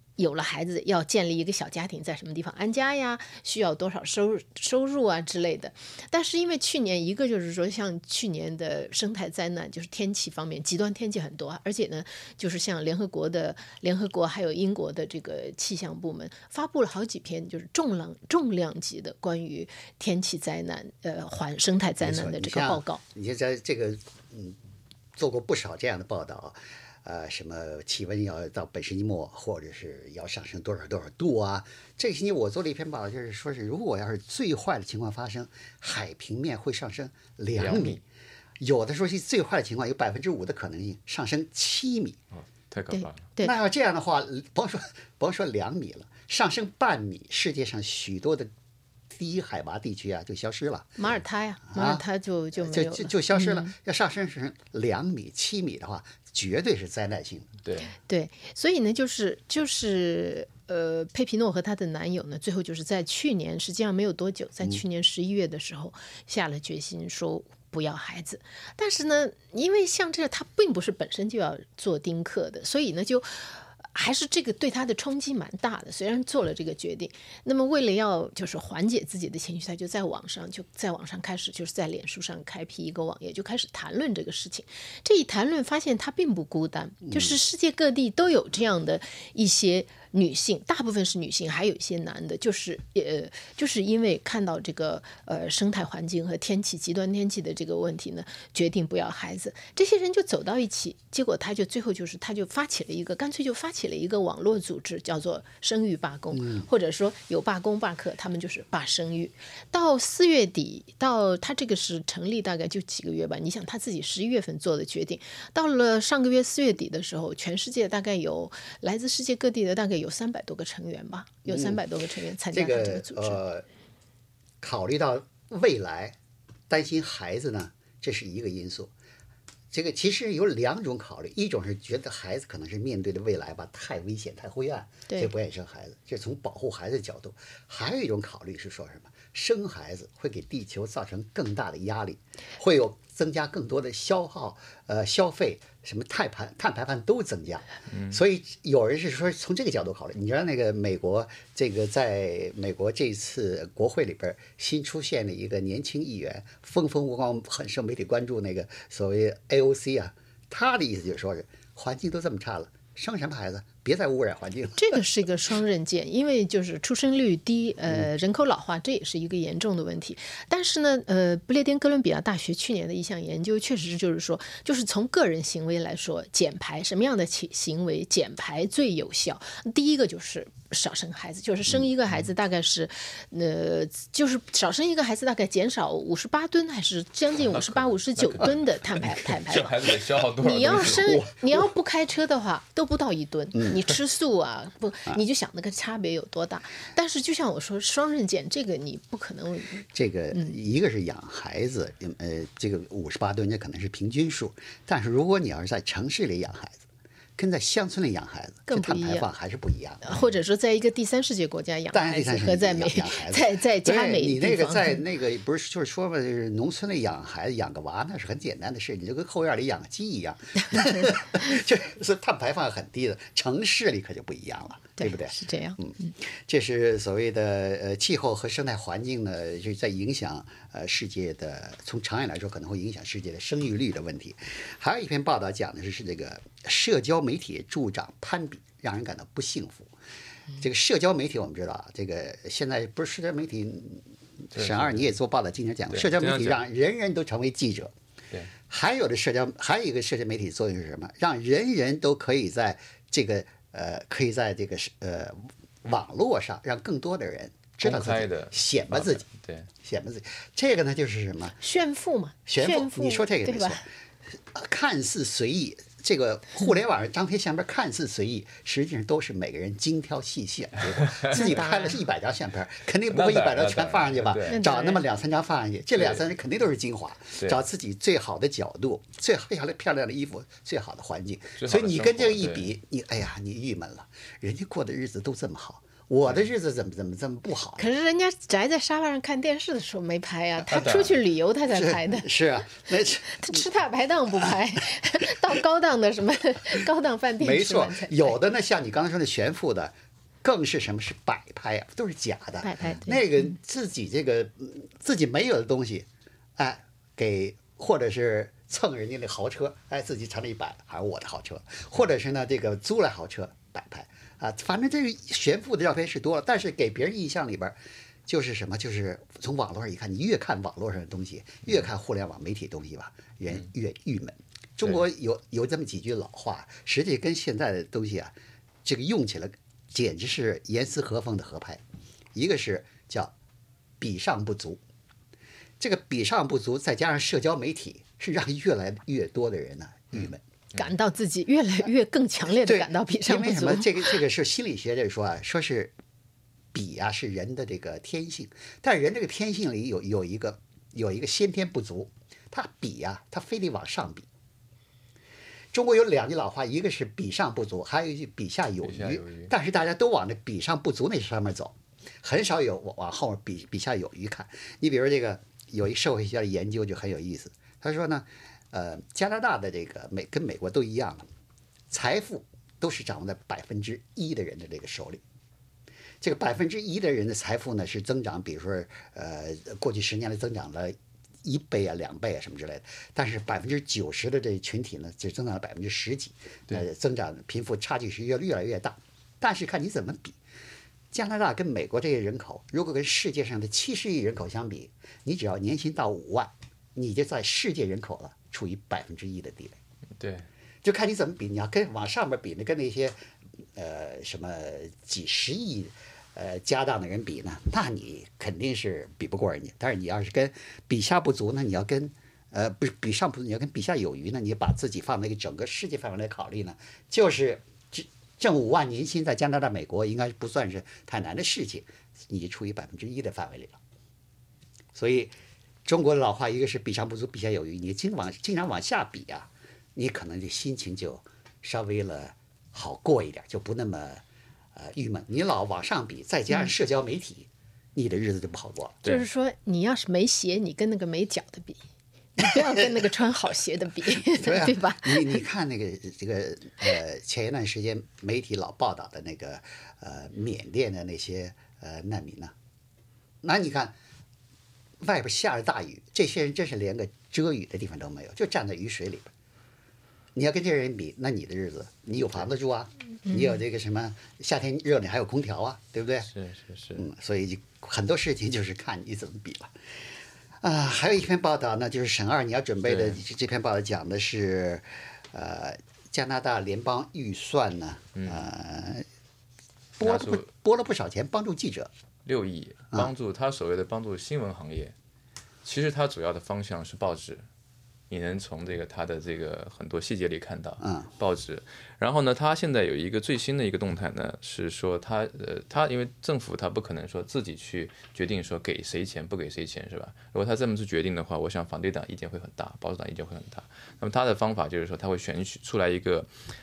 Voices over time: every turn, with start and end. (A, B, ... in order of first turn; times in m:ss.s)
0:00.2-0:23.0 A
0:22.0-0:24.6 B
0:25.2-0:38.0 B
0:37.6-0:38.0 C
0:38.6-0:42.2 B
0:42.3-0:43.2 C
0:42.9-0:43.6 A
0:43.4-0:48.5 B
0:49.1-0:51.1 B
0:51.0-0:53.7 A
0:51.7-0:52.0 B
0:52.6-0:57.5 B
0:57.6-0:57.9 C
0:58.1-2:03.4 A
1:27.0-1:27.4 B
1:46.3-1:46.7 B
2:01.5-2:01.8 B
2:02.5-2:03.7 B
2:04.6-2:06.2 B
2:06.7-2:08.9 B
2:09.7-2:45.0 B
2:27.9-2:28.2 C
2:44.8-3:09.8 A
3:07.5-3:11.2 C
3:10.4-3:20.6 A
3:10.8-3:11.3 B
3:19.9-3:26.8 B
3:27.4-3:30.3 B
3:28.7-3:29.3 A
3:30.0-3:35.0 A
3:31.9-3:59.9 B
3:45.0-3:46.1 A
4:00.6-4:07.9 B
4:04.6-4:05.1 C
4:05.9-4:06.6 C
4:08.7-4:19.2 B
4:17.8-4:19.7 C
4:19.8-4:21.6 B
4:21.6-4:23.8 A
4:22.5-4:23.9 B
4:24.5-4:47.9 B
4:31.1-4:31.4 C
4:31.3-4:32.0 A
4:33.1-4:34.6 C
4:34.5-4:35.0 A
4:41.6-4:42.7 C
4:47.8-4:52.3 A
4:50.7-4:51.2 C
4:51.7-4:53.6 B
4:53.2-4:58.4 A
4:57.4-5:17.8 B
5:02.6-5:03.5 A
5:18.3-5:28.3 B
5:28.8-5:31.8 B
5:32.4-5:33.3 B
5:34.0-5:34.8 B
5:35.8-5:40.4 B
5:40.7-5:44.2 A
5:42.6-5:45.9 B
5:46.7-5:54.3 B
5:55.7-6:11.2 B
5:58.8-5:59.5 C
6:11.9-6:15.2 B
6:16.2-6:30.4 B
6:31.1-6:39.8 B
6:40.2-6:40.5 C
6:40.8-6:43.2 B
6:43.8-7:03.8 B
7:05.0-7:05.3 B
7:05.9-7:14.2 B
7:14.8-7:19.0 B
7:19.0-7:21.8 A
7:22.4-7:25.4 A
7:24.3-7:32.5 B
7:33.4-7:34.0 B
7:35.0-7:39.3 B
7:40.4-7:46.3 B
7:46.3-7:47.0 C
7:47.0-7:49.7 B
7:50.6-7:59.0 B
7:52.9-7:53.2 C
7:58.2-7:58.5 C
8:00.0-8:01.9 B
8:00.0-8:00.5 C
8:02.2-8:05.0 C
8:05.6-8:07.5 C
8:08.1-8:26.3 C
8:10.8-8:11.1 B